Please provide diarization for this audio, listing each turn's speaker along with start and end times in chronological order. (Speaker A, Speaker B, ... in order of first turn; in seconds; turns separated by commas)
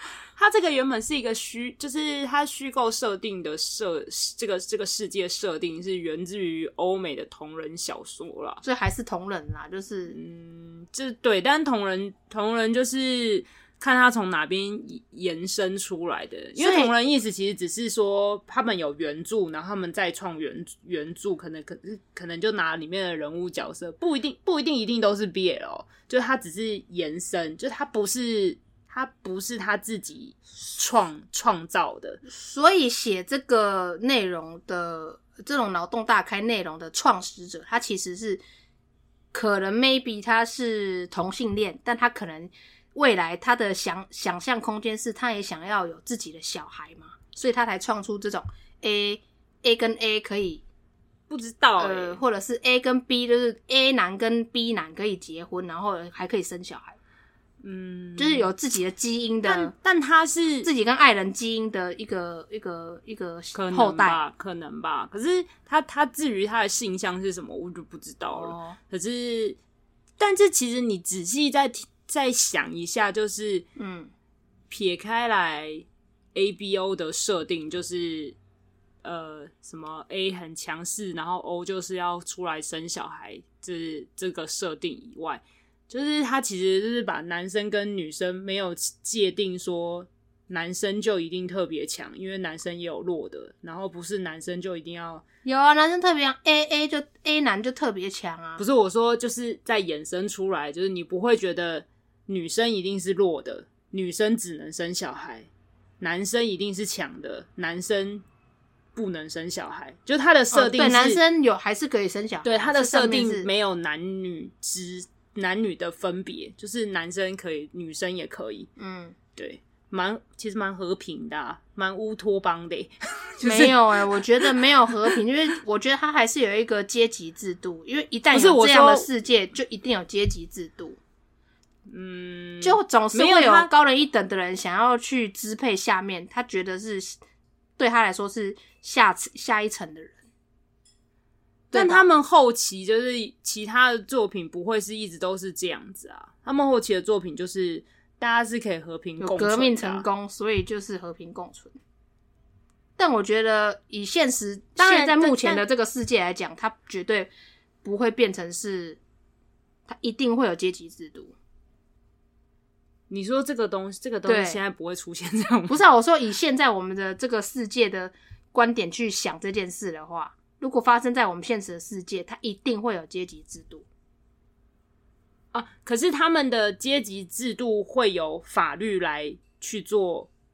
Speaker A: 0.3-8.6, Speaker B: 8.6-10.2, Speaker A: 10.1-32.2, Speaker B: 16.6-16.9, Speaker B: 32.3-38.4, Speaker B: 39.3-50.6, Speaker A: 51.3-52.2, Speaker B: 51.8-57.0, Speaker A: 57.6-58.5, Speaker B: 58.2-59.7, Speaker A: 59.4-60.7, Speaker B: 60.6-64.2, Speaker A: 63.5-69.6, Speaker B: 68.3-68.8, Speaker A: 70.2-73.7, Speaker B: 73.8-74.1, Speaker A: 74.7-78.3, Speaker A: 79.0-95.2, Speaker B: 95.4-98.6, Speaker A: 98.6-105.5, Speaker A: 106.0-108.2, Speaker A: 108.9-111.2, Speaker B: 110.5-113.5, Speaker A: 112.4-118.7, Speaker B: 118.8-119.2, Speaker A: 119.3-125.2, Speaker B: 123.4-131.0, Speaker A: 128.3-129.1, Speaker A: 131.9-133.7, Speaker B: 132.6-137.2, Speaker B: 137.8-140.2, Speaker B: 141.7-142.1, Speaker A: 141.7-150.1, Speaker B: 149.2-151.8, Speaker B: 153.0-157.3, Speaker A: 154.8-155.6, Speaker B: 157.8-159.0, Speaker B: 159.9-161.3, Speaker A: 163.1-165.8, Speaker B: 164.2-164.6, Speaker B: 165.7-173.8, Speaker A: 175.5-180.3